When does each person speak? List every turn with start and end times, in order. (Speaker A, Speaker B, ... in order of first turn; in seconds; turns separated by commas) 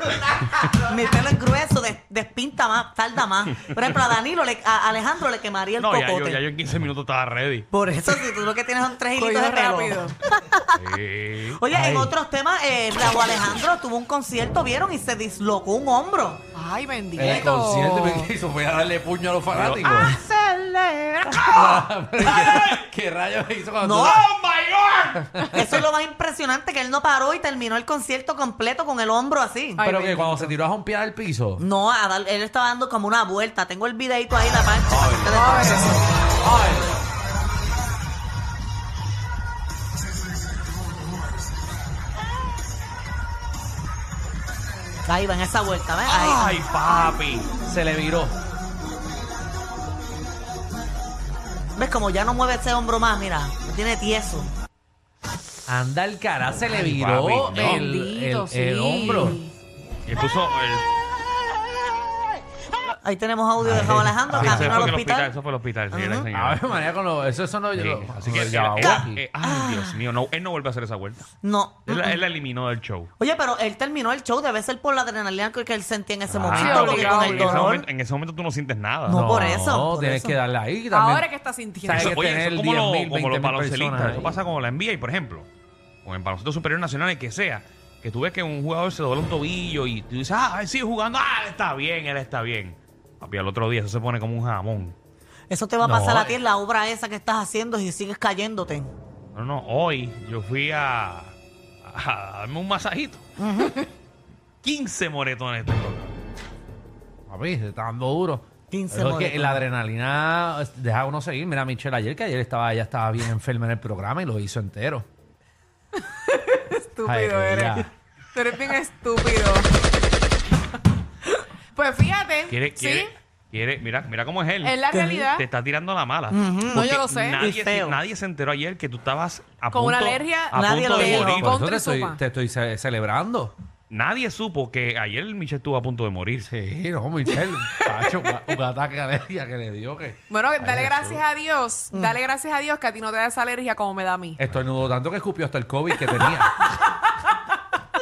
Speaker A: 0.7-6.4, Speaker B: 5.8-7.7, Speaker A: 7.7-10.8, Speaker C: 9.2-10.2, Speaker B: 10.8-11.6, Speaker A: 11.6-16.4, Speaker D: 11.7-12.1, Speaker C: 16.5-18.3, Speaker D: 17.1-20.2, Speaker B: 19.5-20.1, Speaker A: 19.9-21.8, Speaker B: 21.4-21.7, Speaker D: 21.5-24.2, Speaker B: 22.2-22.8, Speaker A: 23.8-24.2, Speaker B: 24.0-25.7, Speaker D: 25.2-25.8, Speaker A: 25.5-29.8, Speaker C: 29.8-30.5, Speaker D: 29.8-31.6, Speaker A: 31.6-36.0, Speaker D: 34.9-37.0, Speaker C: 35.3-36.1, Speaker A: 45.1-46.6, Speaker B: 46.1-47.5, Speaker D: 47.6-48.4, Speaker A: 51.8-54.5, Speaker D: 55.7-59.4, Speaker B: 56.7-57.9, Speaker C: 57.6-59.5, Speaker B: 60.1-60.9, Speaker A: 63.0-65.3, Speaker D: 63.6-65.0, Speaker B: 64.3-66.7, Speaker A: 65.9-66.3, Speaker D: 66.3-69.2, Speaker B: 67.7-71.3, Speaker A: 68.8-70.0, Speaker A: 71.4-72.2, Speaker B: 71.9-73.1, Speaker A: 73.2-77.9, Speaker D: 76.3-76.7, Speaker B: 76.4-79.5, Speaker C: 76.6-77.7, Speaker A: 79.1-80.4, Speaker D: 79.1-81.3, Speaker C: 80.9-82.3, Speaker D: 81.8-84.4, Speaker B: 81.9-85.5, Speaker B: 86.0-95.0, Speaker A: 95.5-98.9, Speaker D: 95.8-96.4, Speaker B: 99.3-103.2, Speaker A: 103.4-103.8, Speaker B: 104.6-106.2, Speaker D: 107.3-115.1, Speaker A: 108.7-109.6, Speaker C: 116.0-119.8, Speaker D: 117.1-117.9, Speaker C: 121.3-123.1, Speaker B: 122.5-131.5, Speaker C: 124.6-125.5, Speaker A: 124.9-125.2, Speaker A: 126.3-128.0, Speaker C: 126.8-127.4, Speaker C: 129.7-132.2, Speaker A: 130.5-131.5, Speaker D: 131.0-133.5, Speaker B: 133.9-136.5, Speaker D: 136.5-141.2, Speaker C: 137.3-138.3, Speaker C: 140.3-144.4, Speaker A: 141.9-142.2, Speaker D: 144.4-146.5, Speaker C: 146.7-147.3